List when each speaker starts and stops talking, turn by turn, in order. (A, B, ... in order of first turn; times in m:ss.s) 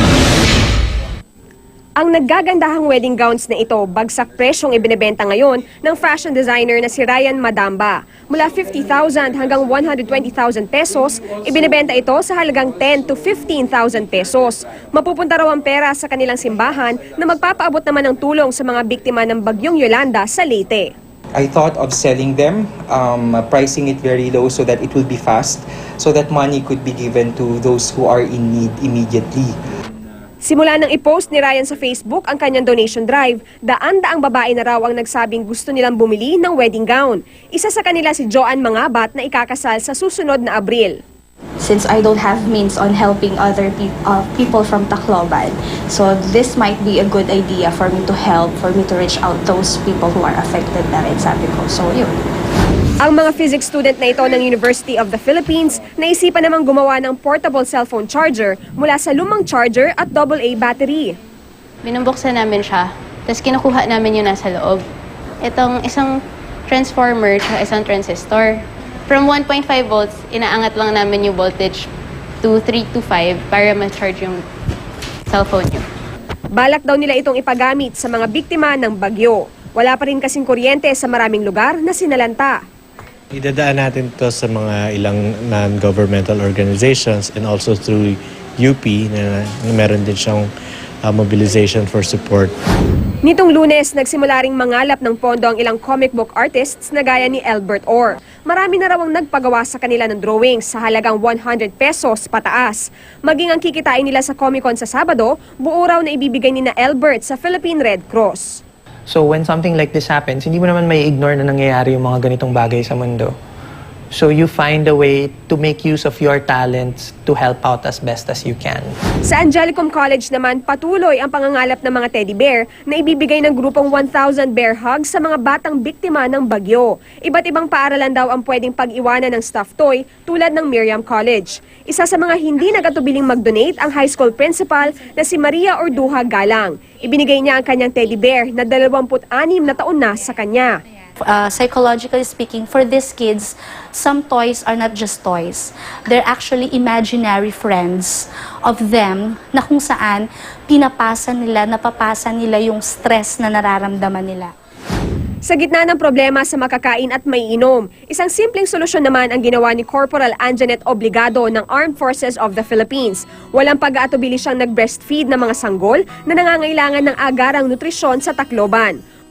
0:02.0-0:20.9 A
0:21.3-0:29.6 B
0:30.4-0:41.0 A
0:41.6-0:52.2 C
0:53.0-1:01.1 A
1:01.8-1:04.8 D
1:05.4-1:06.1 D
1:06.7-1:08.6 D
1:09.1-1:11.9 D
1:12.4-1:14.4 D
1:15.3-1:15.8 D
1:16.6-1:22.6 A
1:23.3-1:30.5 E
1:31.0-1:32.5 E
1:33.2-1:48.6 A
1:49.1-1:53.4 F
1:54.1-1:59.0 F
1:59.2-2:20.8 A
2:21.2-2:34.5 G
2:35.4-2:49.0 A